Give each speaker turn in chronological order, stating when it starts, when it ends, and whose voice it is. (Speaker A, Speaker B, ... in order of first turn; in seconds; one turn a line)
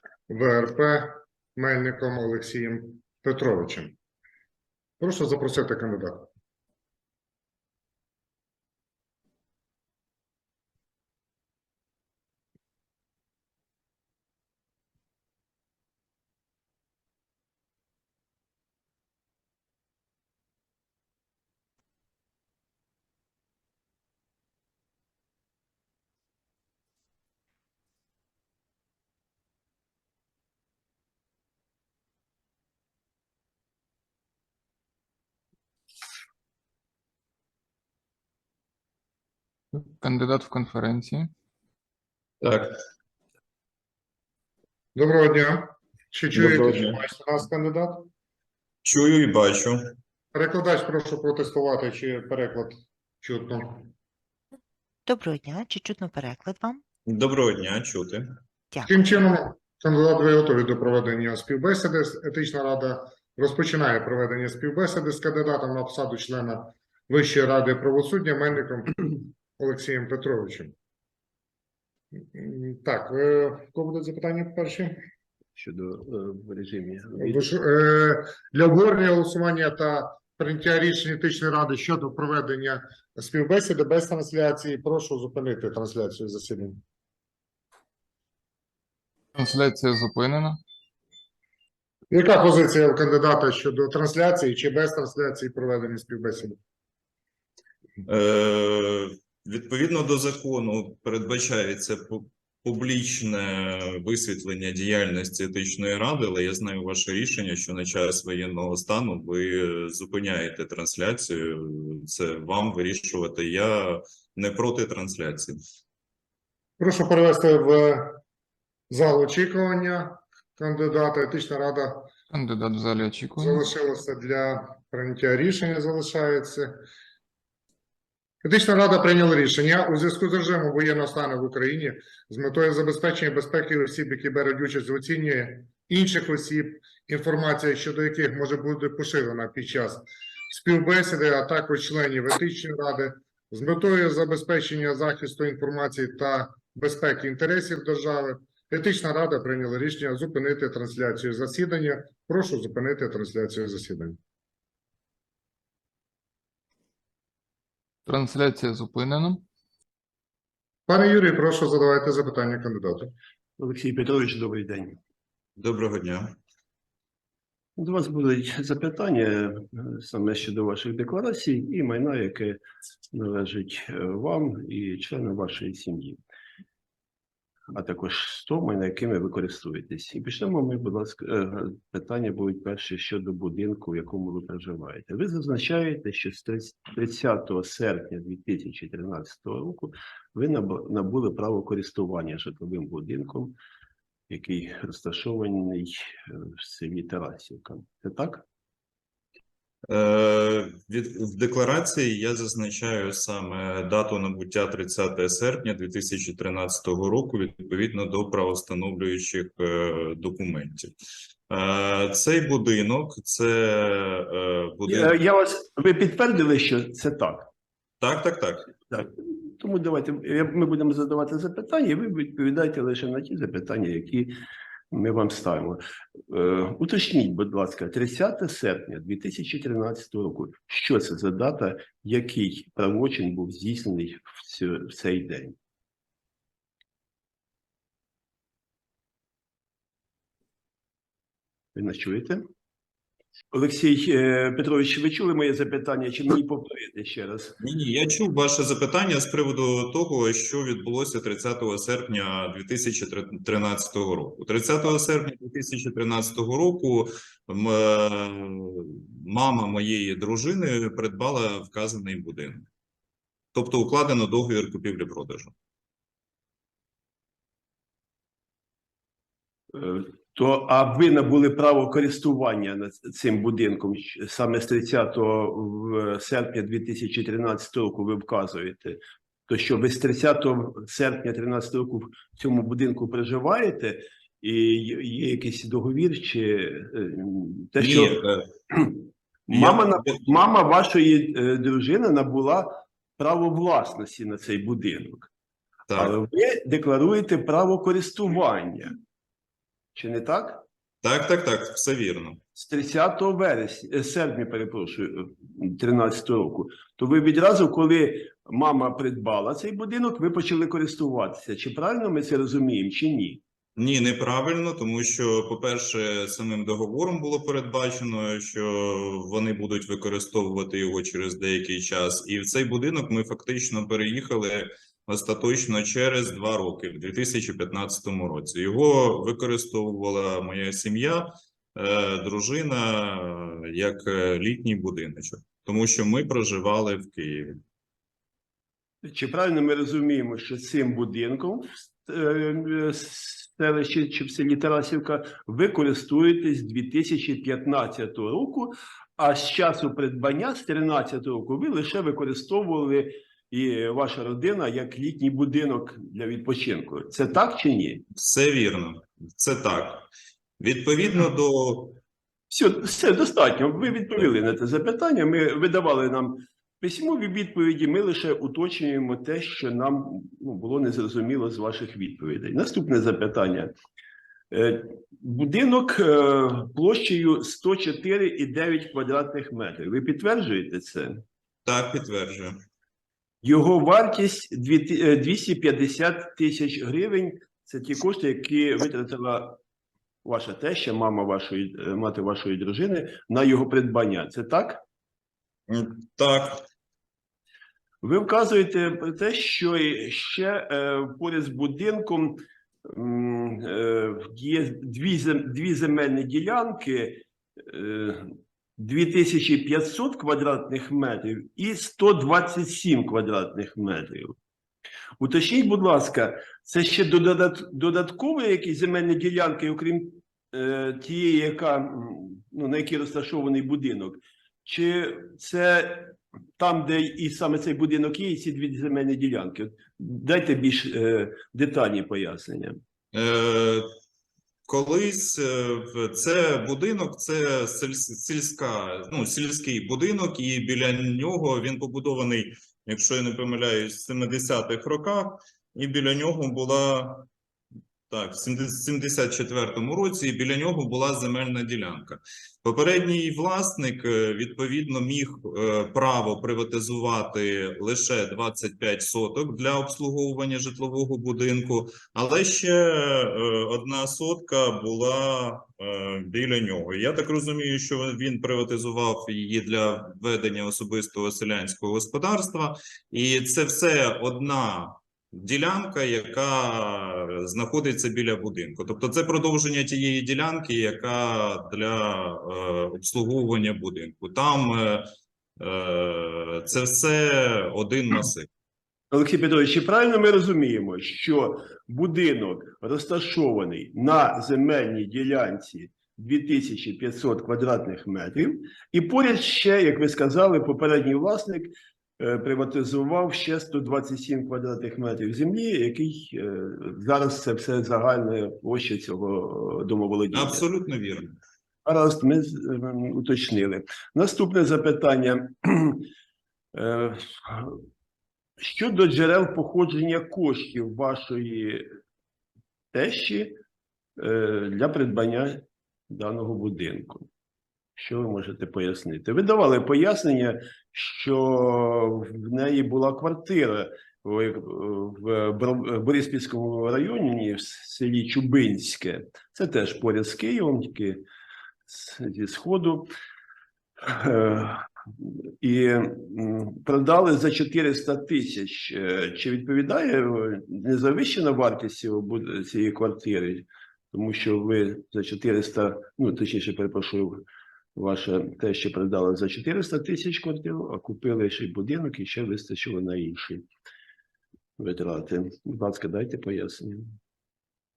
Speaker A: 0.3-3.9
Speaker A: 5.0-6.3
Speaker B: 39.7-41.3
Speaker C: 42.4-42.8
Speaker A: 45.0-48.1
Speaker C: 46.3-47.0
Speaker C: 48.8-49.8
Speaker A: 50.3-53.9
Speaker D: 55.0-56.8
Speaker C: 57.0-58.3
Speaker D: 58.7-59.1
Speaker A: 58.9-70.7
Speaker A: 72.2-75.0
Speaker E: 75.5-77.5
Speaker A: 77.2-86.8
Speaker B: 89.3-90.6
Speaker A: 92.1-96.6
Speaker C: 98.0-115.6
Speaker A: 116.8-118.2
Speaker A: 118.9-122.1
Speaker B: 122.3-123.7
Speaker A: 123.4-126.8
Speaker A: 128.4-154.2
Speaker B: 158.1-159.4
Speaker A: 160.9-163.1
Speaker E: 163.6-165.0
Speaker C: 165.6-166.3
Speaker E: 167.8-172.6
Speaker E: 173.1-176.2
Speaker E: 177.7-193.6
Speaker E: 194.3-198.4
Speaker C: 199.9-210.9
Speaker C: 211.5-215.2
Speaker E: 214.8-217.5
Speaker C: 218.0-218.7
Speaker E: 218.9-224.3
Speaker E: 224.9-235.6
Speaker E: 241.8-242.4
Speaker E: 243.5-247.6
Speaker C: 247.6-262.7
Speaker C: 263.5-265.5
Speaker E: 269.7-288.2
Speaker C: 287.8-288.5
Speaker E: 289.5-295.3
Speaker C: 289.5-290.2
Speaker C: 295.9-296.2
Speaker E: 296.0-299.0
Speaker E: 299.9-300.6
Speaker C: 301.0-302.4
Speaker E: 302.6-313.4
Speaker C: 313.8-337.6
Speaker E: 339.0-358.0
Speaker C: 358.1-360.1
Speaker C: 360.6-362.0
Speaker E: 362.5-373.7
Speaker E: 374.5-381.2
Speaker C: 381.7-382.6
Speaker E: 383.4-389.6
Speaker E: 390.2-394.8
Speaker C: 395.7-396.6
Speaker E: 398.0-414.4
Speaker E: 415.2-432.8
Speaker C: 433.1-433.9
Speaker C: 434.7-447.3
Speaker C: 448.1-485.1
Speaker C: 485.6-488.5
Speaker E: 489.1-510.6
Speaker C: 510.3-511.4
Speaker E: 511.9-516.1
Speaker E: 516.7-517.8
Speaker E: 518.6-521.9
Speaker E: 522.9-523.6
Speaker E: 524.2-527.3
Speaker E: 528.0-541.2
Speaker E: 541.9-543.1
Speaker E: 544.0-557.5
Speaker E: 558.0-563.6
Speaker E: 564.8-567.1